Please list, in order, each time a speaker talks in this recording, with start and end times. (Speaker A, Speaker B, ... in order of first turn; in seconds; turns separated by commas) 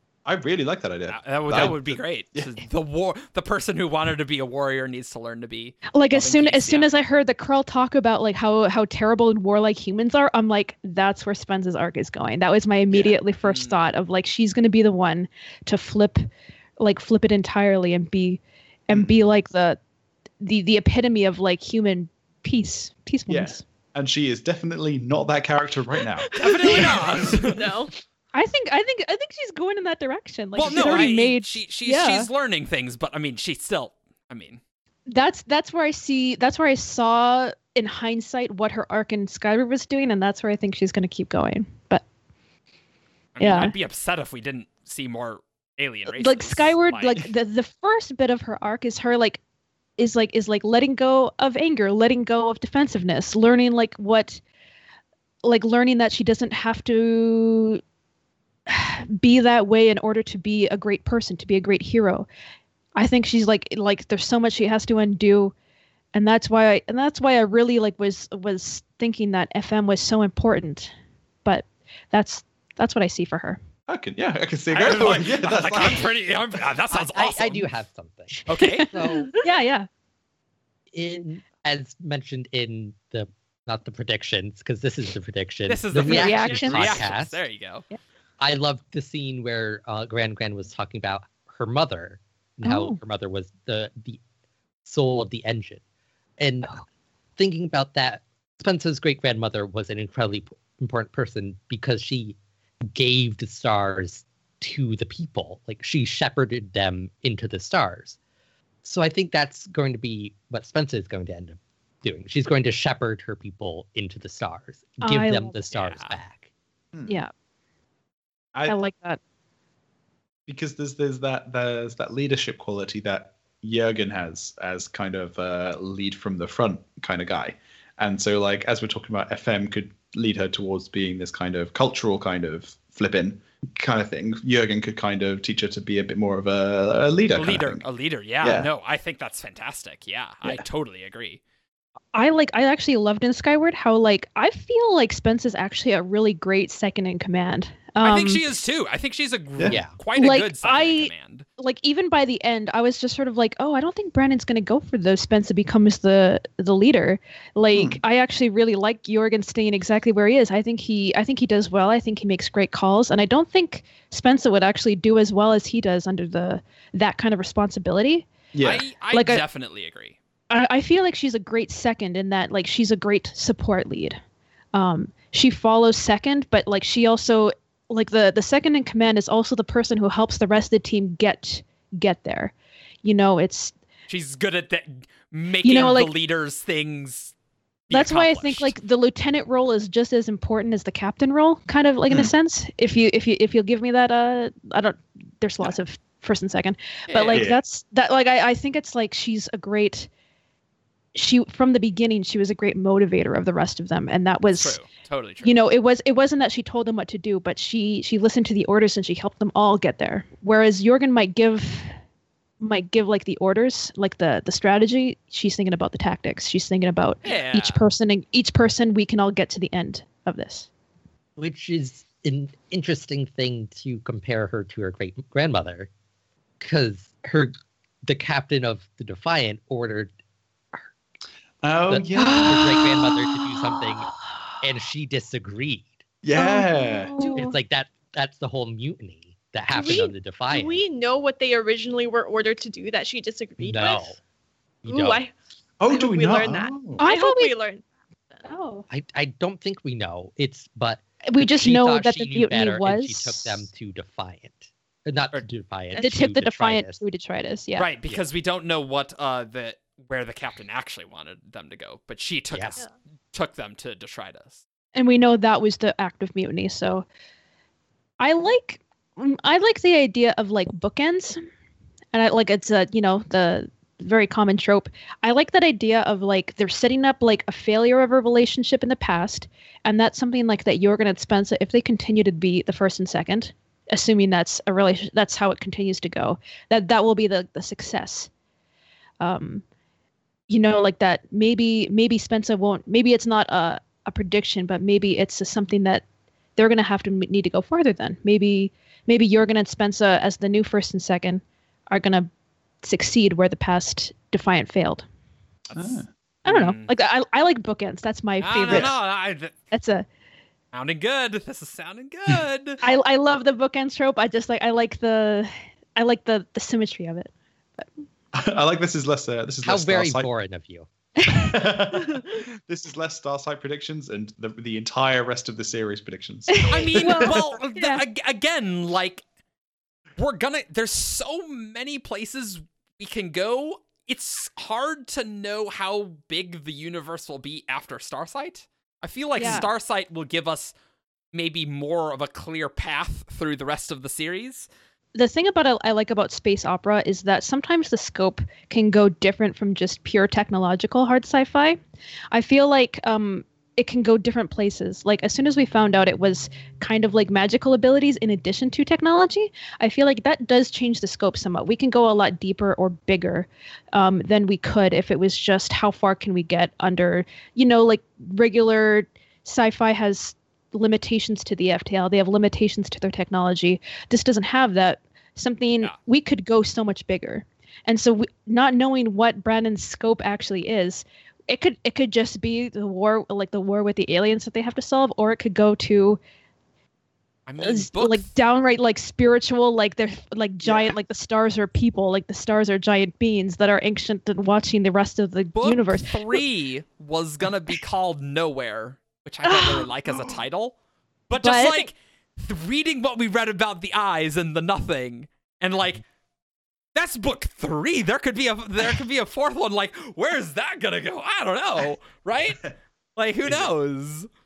Speaker A: 0.2-2.6, Speaker B: 1.1-6.9, Speaker C: 5.9-16.2, Speaker A: 12.9-13.2, Speaker B: 13.4-13.8, Speaker C: 16.8-19.8, Speaker C: 20.4-23.6, Speaker A: 23.3-26.3, Speaker D: 26.1-27.9, Speaker B: 26.4-27.7, Speaker C: 26.7-27.0, Speaker C: 28.3-32.3, Speaker B: 30.5-34.6, Speaker A: 30.6-31.0, Speaker C: 35.1-42.0, Speaker B: 43.3-47.2, Speaker C: 43.4-43.7, Speaker C: 46.1-49.4, Speaker C: 50.0-54.4, Speaker C: 55.4-57.8, Speaker C: 58.7-62.3, Speaker C: 63.0-65.5, Speaker C: 66.1-70.9, Speaker C: 71.4-73.6, Speaker A: 73.9-76.2, Speaker B: 74.7-77.7, Speaker E: 76.9-79.3, Speaker B: 78.5-78.9, Speaker C: 78.7-79.9, Speaker E: 80.9-87.4, Speaker B: 85.7-87.8, Speaker C: 86.0-87.1, Speaker E: 88.4-94.2, Speaker C: 92.6-93.0, Speaker E: 94.8-95.8, Speaker E: 96.4-96.8, Speaker E: 97.4-102.4, Speaker E: 102.9-108.2, Speaker E: 108.8-116.5, Speaker C: 115.0-115.6, Speaker B: 115.7-116.2, Speaker A: 116.9-117.2, Speaker C: 118.7-119.2, Speaker A: 120.5-137.8, Speaker B: 137.3-141.4, Speaker A: 138.4-138.7, Speaker C: 142.1-148.5, Speaker B: 148.0-151.4, Speaker E: 149.7-149.9, Speaker C: 150.1-168.3, Speaker A: 157.7-158.0, Speaker A: 168.5-168.8, Speaker B: 168.6-170.2, Speaker C: 169.1-169.4, Speaker C: 170.5-174.2, Speaker C: 174.7-182.5, Speaker C: 183.0-183.7, Speaker B: 184.1-187.3, Speaker C: 185.6-186.1, Speaker B: 187.9-188.8, Speaker C: 187.9-200.1, Speaker B: 197.1-197.5, Speaker A: 197.3-197.6, Speaker C: 201.1-204.8, Speaker B: 204.5-205.5, Speaker C: 205.4-211.9, Speaker C: 212.6-220.7, Speaker B: 217.2-217.8, Speaker E: 221.4-225.9, Speaker E: 226.6-230.1, Speaker A: 231.6-232.9, Speaker E: 231.9-235.9, Speaker C: 232.2-233.1, Speaker A: 236.2-237.2, Speaker C: 236.3-237.6, Speaker E: 237.3-240.8, Speaker D: 239.7-244.1, Speaker E: 243.6-244.2, Speaker E: 244.8-245.2, Speaker D: 244.8-245.3, Speaker A: 245.8-247.0, Speaker D: 245.9-247.8, Speaker C: 247.0-247.5, Speaker C: 248.4-248.8, Speaker E: 248.9-257.0, Speaker C: 251.3-253.7, Speaker D: 255.9-256.3, Speaker C: 256.0-257.9, Speaker B: 257.8-264.6, Speaker E: 262.5-262.8, Speaker C: 264.9-267.1, Speaker C: 268.2-271.4, Speaker C: 272.1-288.3, Speaker C: 289.2-289.6, Speaker C: 290.5-296.0, Speaker C: 296.6-302.3, Speaker C: 302.8-305.0, Speaker B: 305.7-306.9, Speaker A: 305.7-306.1, Speaker C: 306.4-309.0, Speaker B: 308.4-309.6, Speaker C: 309.7-310.1, Speaker B: 310.7-312.8, Speaker C: 312.8-317.9, Speaker A: 318.3-320.3, Speaker E: 319.6-320.9, Speaker C: 321.2-321.4, Speaker A: 321.3-327.4, Speaker C: 326.5-328.0, Speaker B: 326.7-329.2, Speaker B: 330.2-340.7, Speaker C: 339.4-339.7, Speaker B: 341.3-344.7, Speaker C: 345.1-351.8, Speaker C: 352.3-386.2, Speaker B: 387.5-388.3, Speaker C: 387.6-396.4, Speaker A: 390.6-390.9, Speaker B: 395.5-400.8, Speaker C: 399.4-399.9, Speaker B: 401.3-406.0, Speaker C: 401.4-401.9, Speaker B: 406.9-412.6, Speaker B: 413.1-414.3